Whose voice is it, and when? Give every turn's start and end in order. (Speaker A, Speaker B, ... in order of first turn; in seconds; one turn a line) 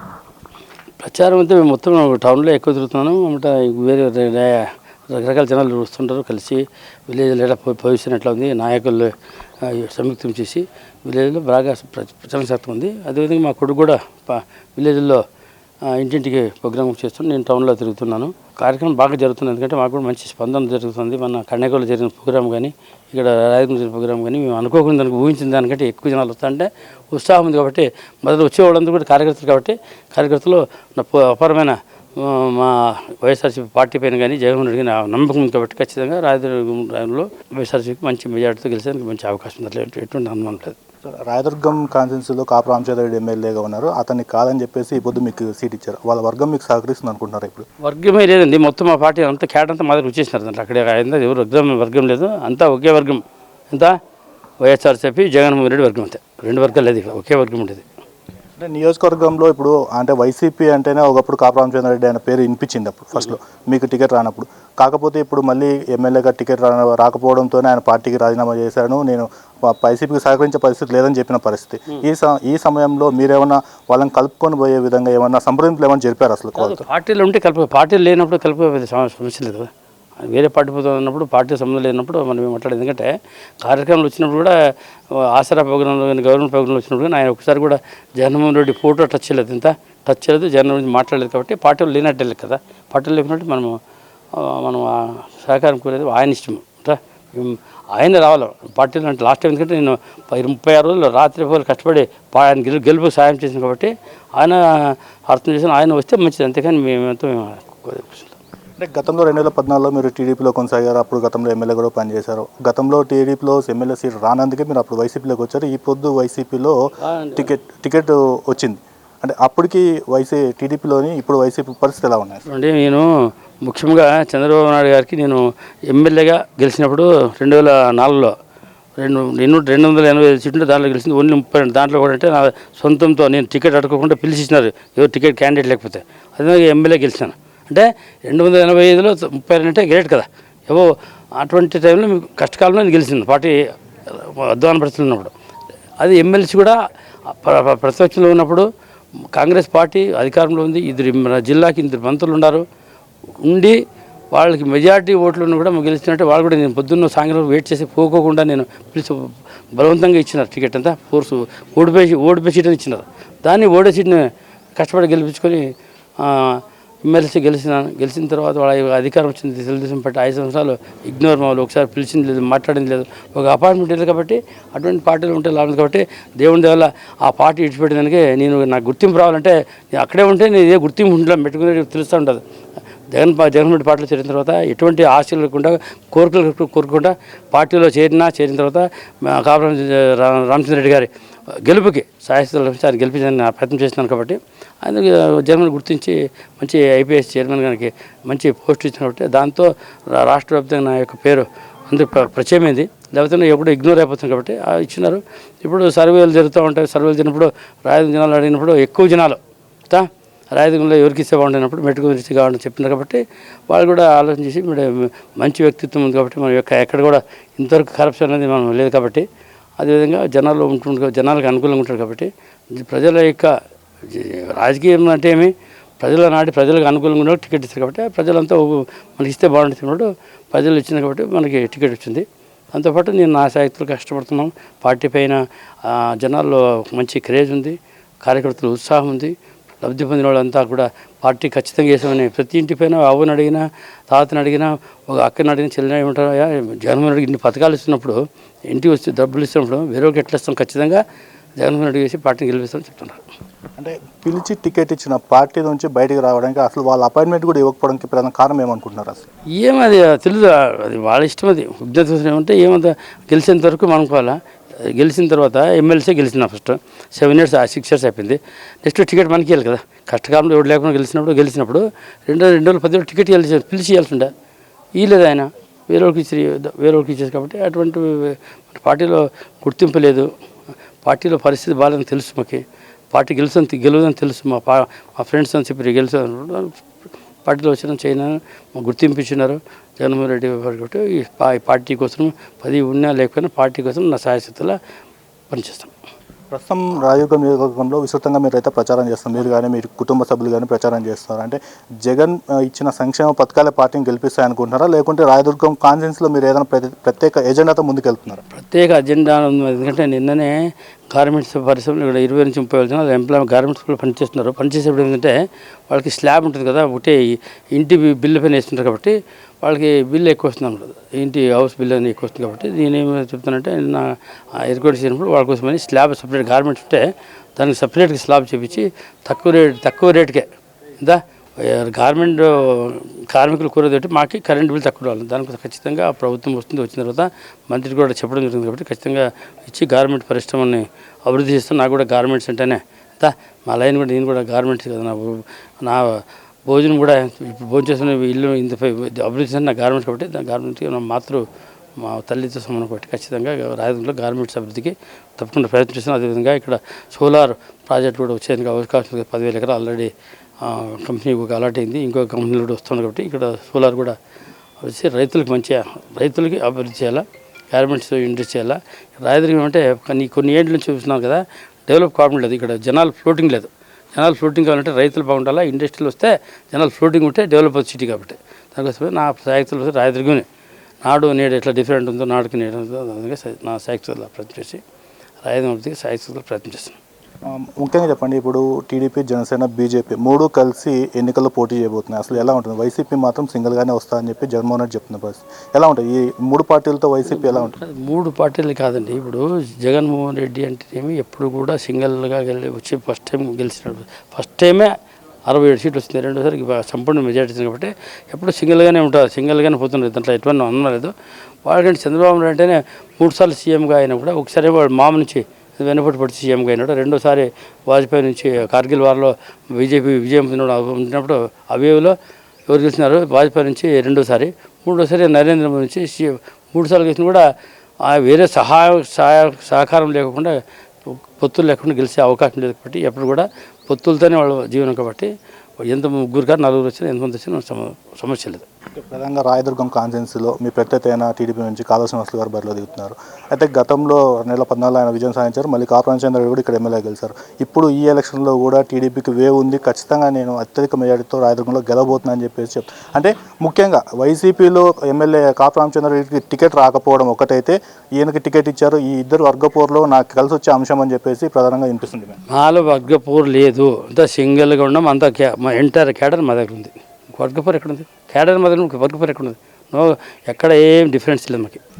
Speaker A: 1.0-9.1
Speaker A: 9.6-15.2
Speaker A: 15.9-40.8
Speaker B: 41.0-47.7
Speaker A: 47.8-54.0
Speaker A: 54.6-57.9
Speaker B: 58.6-76.8
Speaker A: 76.6-79.7
Speaker A: 80.2-83.1
Speaker A: 83.6-84.5
Speaker A: 85.1-93.8
Speaker A: 94.3-108.4
Speaker B: 108.8-116.8
Speaker A: 117.0-117.5
Speaker B: 117.3-122.4
Speaker A: 122.5-123.1
Speaker A: 123.6-128.3
Speaker A: 129.0-145.3
Speaker A: 146.0-148.7
Speaker A: 149.3-152.6
Speaker A: 153.4-153.8
Speaker A: 154.3-165.7
Speaker A: 166.2-182.4
Speaker A: 183.1-219.2
Speaker A: 219.8-223.5
Speaker A: 224.1-251.0
Speaker A: 251.6-253.2
Speaker B: 253.8-259.2
Speaker A: 259.6-274.3
Speaker A: 275.0-280.3
Speaker A: 281.0-286.8
Speaker A: 287.4-294.8
Speaker A: 295.5-295.9
Speaker B: 296.5-308.4
Speaker A: 308.5-310.6
Speaker A: 311.1-315.4
Speaker A: 315.9-330.5
Speaker A: 331.0-351.4
Speaker A: 352.0-364.1
Speaker A: 364.8-380.5
Speaker A: 381.0-384.8
Speaker A: 385.4-387.0
Speaker B: 387.5-397.8
Speaker A: 397.2-404.9
Speaker A: 405.5-411.1
Speaker A: 411.6-422.1
Speaker A: 422.7-427.5
Speaker A: 428.0-438.6
Speaker B: 438.9-462.4
Speaker A: 462.5-471.8